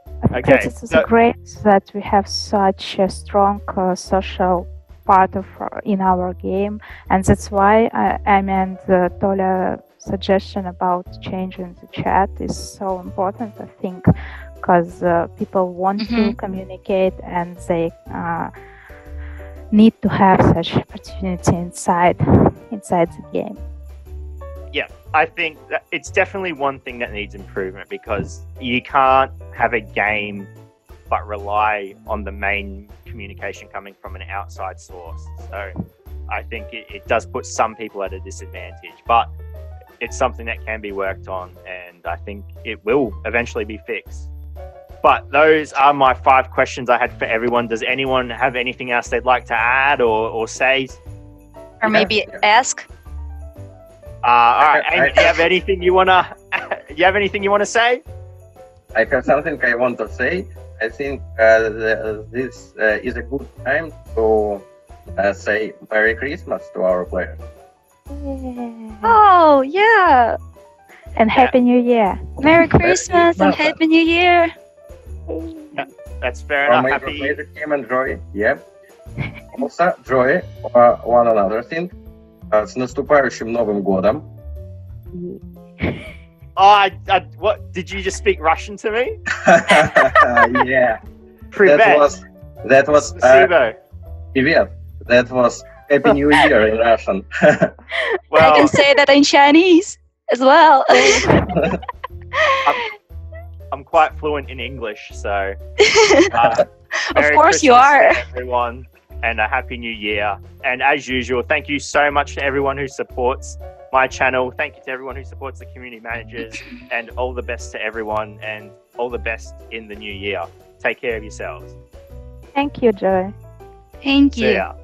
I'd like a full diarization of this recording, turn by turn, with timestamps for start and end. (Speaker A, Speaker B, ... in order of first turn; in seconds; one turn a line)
Speaker A: 0.2-14.1
Speaker B: 0.3-1.1
Speaker A: 14.6-18.5
Speaker C: 16.0-16.4
Speaker A: 19.7-23.6
Speaker B: 24.7-30.5
Speaker B: 31.1-35.7
Speaker B: 36.3-39.3
Speaker B: 40.0-44.3
Speaker B: 45.0-51.0
Speaker C: 51.8-52.9
Speaker D: 51.8-52.4
Speaker B: 54.2-58.0
Speaker D: 54.6-55.4
Speaker D: 58.9-67.4
Speaker A: 68.1-69.2
Speaker C: 69.0-70.4
Speaker A: 71.2-72.6
Speaker C: 72.4-74.5
Speaker D: 72.8-73.8
Speaker A: 75.3-75.8
Speaker B: 75.7-77.4
Speaker D: 76.7-78.6
Speaker D: 79.5-81.9
Speaker D: 82.5-84.3
Speaker A: 85.1-86.1
Speaker B: 86.5-89.2
Speaker D: 89.4-91.0
Speaker B: 91.5-92.1
Speaker D: 91.6-93.5
Speaker B: 93.1-93.8
Speaker D: 94.3-97.7
Speaker B: 98.3-98.8
Speaker C: 98.3-101.4
Speaker D: 101.5-101.8
Speaker C: 102.4-102.8
Speaker B: 103.7-105.6
Speaker C: 105.9-106.3
Speaker B: 106.3-106.6
Speaker D: 106.3-106.6
Speaker C: 107.1-108.2
Speaker B: 107.1-121.7
Speaker A: 122.5-123.3
Speaker C: 124.0-124.6
Speaker B: 124.3-124.7